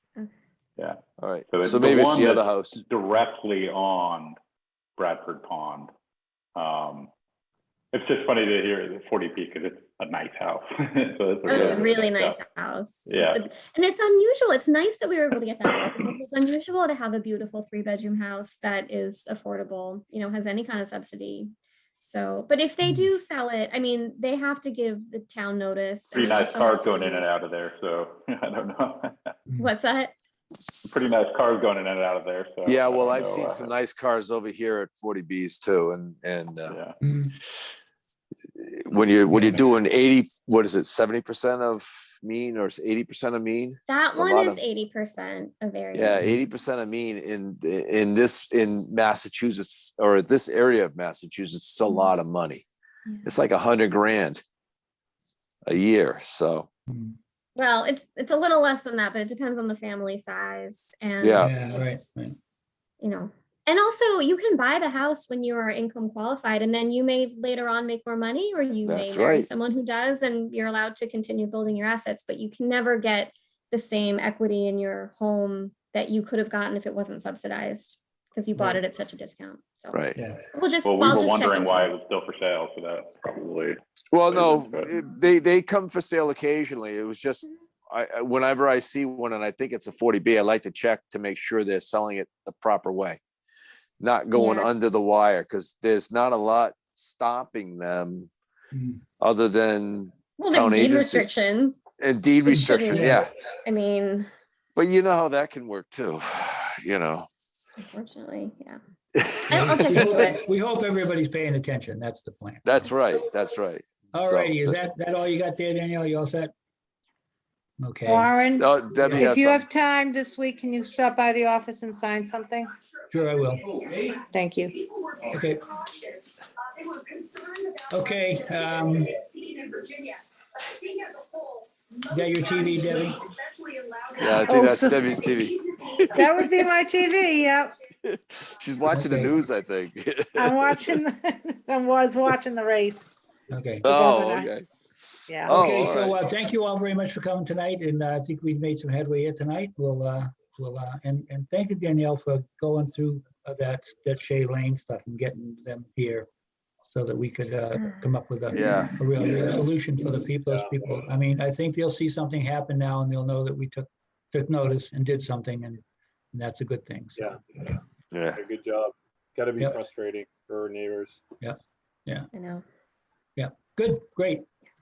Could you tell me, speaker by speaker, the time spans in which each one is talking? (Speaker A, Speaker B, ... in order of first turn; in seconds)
Speaker A: 1.2-2.8, 11.5-11.9, 32.6-36.8, 38.5-44.6, 45.9-52.6, 53.2-54.4, 55.6-56.7, 61.2-61.6, 68.8-69.5, 79.9-80.2, 84.1-93.2, 94.0-98.3, 99.2-101.4, 102.0-103.3, 104.8-107.3, 109.1-110.3, 112.6-114.8, 118.6-119.7, 134.2-136.5, 138.0-141.0, 143.8-144.7, 145.4-146.2, 158.5-158.9, 168.1-168.4
Speaker B: 1.5-4.4, 5.0-5.9, 6.5-7.1, 7.9-12.4, 13.1-13.4, 26.1-29.3, 30.8-33.7, 36.7-37.0, 80.8-84.9
Speaker C: 11.4-27.2, 29.6-30.1, 43.9-46.2, 51.8-52.1, 57.5-62.1, 63.0-81.9, 94.3-94.7, 100.4-101.8, 102.5-104.3, 107.8-108.8, 109.5-110.4, 172.3-172.6
Speaker D: 22.8-23.1, 37.0-37.3, 39.3-39.6, 56.9-57.2, 61.3-62.4, 80.1-80.5, 98.7-99.0, 102.5-103.2, 109.5-112.7, 114.1-116.5, 117.8-118.3, 119.0-119.4, 123.1-123.8, 125.3-125.8, 127.9-129.2, 132.0-133.3, 138.8-139.5, 143.5-143.9, 145.4-156.3, 156.9-167.8, 171.4-172.3, 173.4-174.5
Speaker E: 118.0-122.7, 124.3-124.8, 134.4-135.1, 136.1-137.8, 140.3-143.2, 143.9-144.5, 145.3-145.6
Speaker F: 159.2-159.6, 160.4-161.0, 167.2-167.8, 168.3-171.2